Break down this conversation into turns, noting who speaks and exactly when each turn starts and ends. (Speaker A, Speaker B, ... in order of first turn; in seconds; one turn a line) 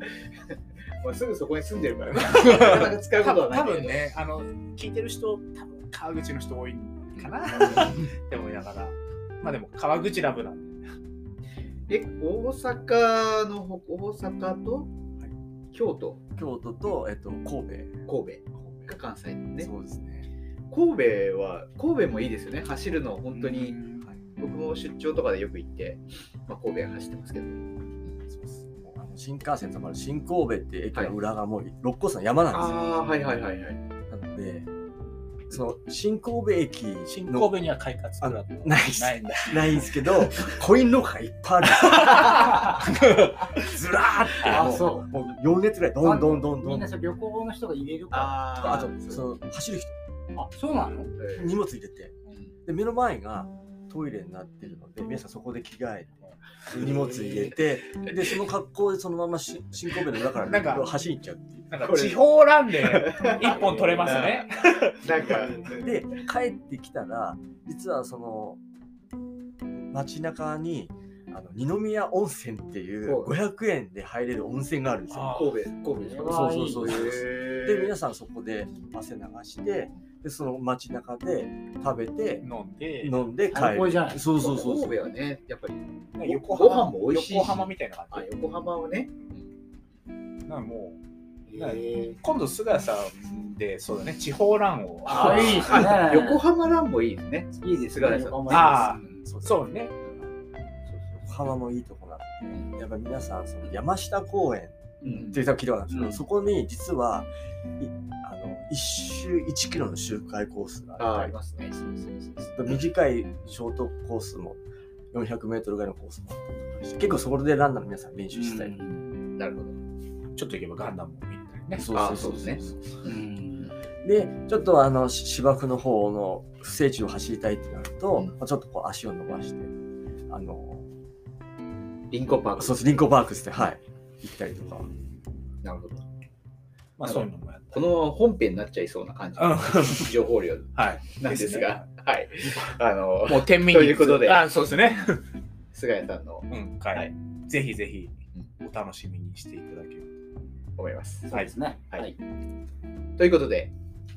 Speaker A: 1.0-4.0
Speaker B: 2.2-10.9
Speaker A: 7.2-7.9
Speaker A: 11.9-14.9
Speaker A: 15.7-16.2
Speaker C: 16.4-18.1
Speaker A: 18.1-19.7
Speaker C: 19.6-20.3
Speaker A: 20.7-23.8
Speaker D: 23.3-24.1
Speaker A: 24.4-28.1
Speaker C: 28.3-32.8
Speaker A: 32.5-33.8
Speaker D: 32.8-33.3
Speaker C: 34.1-34.7
Speaker C: 35.5-37.6
Speaker B: 37.1-40.2
Speaker C: 38.2-46.9
Speaker B: 42.1-42.4
Speaker B: 44.4-44.8
Speaker D: 44.5-45.1
Speaker D: 46.0-48.9
Speaker A: 48.1-49.3
Speaker C: 48.6-49.9
Speaker D: 50.3-51.1
Speaker A: 51.2-51.6
Speaker C: 51.4-52.1
Speaker C: 52.6-61.8
Speaker D: 56.8-57.6
Speaker B: 60.5-60.9
Speaker B: 61.7-65.2
Speaker A: 61.8-64.5
Speaker A: 65.0-66.0
Speaker C: 65.7-68.6
Speaker C: 69.8-75.5
Speaker A: 73.0-73.3
Speaker B: 75.1-75.6
Speaker A: 75.3-77.9
Speaker D: 76.0-77.0
Speaker C: 76.1-82.5
Speaker B: 82.4-83.2
Speaker C: 83.0-85.0
Speaker D: 83.5-84.2
Speaker A: 84.3-89.5
Speaker B: 86.2-88.3
Speaker B: 90.5-91.0
Speaker D: 91.5-92.2
Speaker B: 91.5-95.9
Speaker D: 95.0-96.4
Speaker A: 95.1-98.8
Speaker D: 97.5-99.3
Speaker B: 98.5-99.9
Speaker C: 99.3-99.6
Speaker A: 100.0-100.3
Speaker A: 100.9-101.4
Speaker C: 101.2-114.6
Speaker A: 105.0-105.4
Speaker D: 105.9-106.2
Speaker A: 111.0-112.8
Speaker C: 115.1-118.8
Speaker D: 118.3-119.0
Speaker A: 119.0-119.8
Speaker B: 120.3-121.9
Speaker C: 121.7-123.0
Speaker A: 121.9-123.2
Speaker D: 123.0-123.7
Speaker C: 124.0-129.7
Speaker C: 130.3-130.9
Speaker A: 132.1-132.9
Speaker C: 132.6-134.9
Speaker A: 135.6-136.0
Speaker B: 137.0-137.8
Speaker A: 137.0-145.1
Speaker B: 139.4-140.2
Speaker B: 140.7-141.9
Speaker B: 143.3-145.2
Speaker A: 145.7-147.1
Speaker B: 146.5-150.1
Speaker A: 150.8-151.3
Speaker D: 151.3-152.2
Speaker A: 153.2-153.7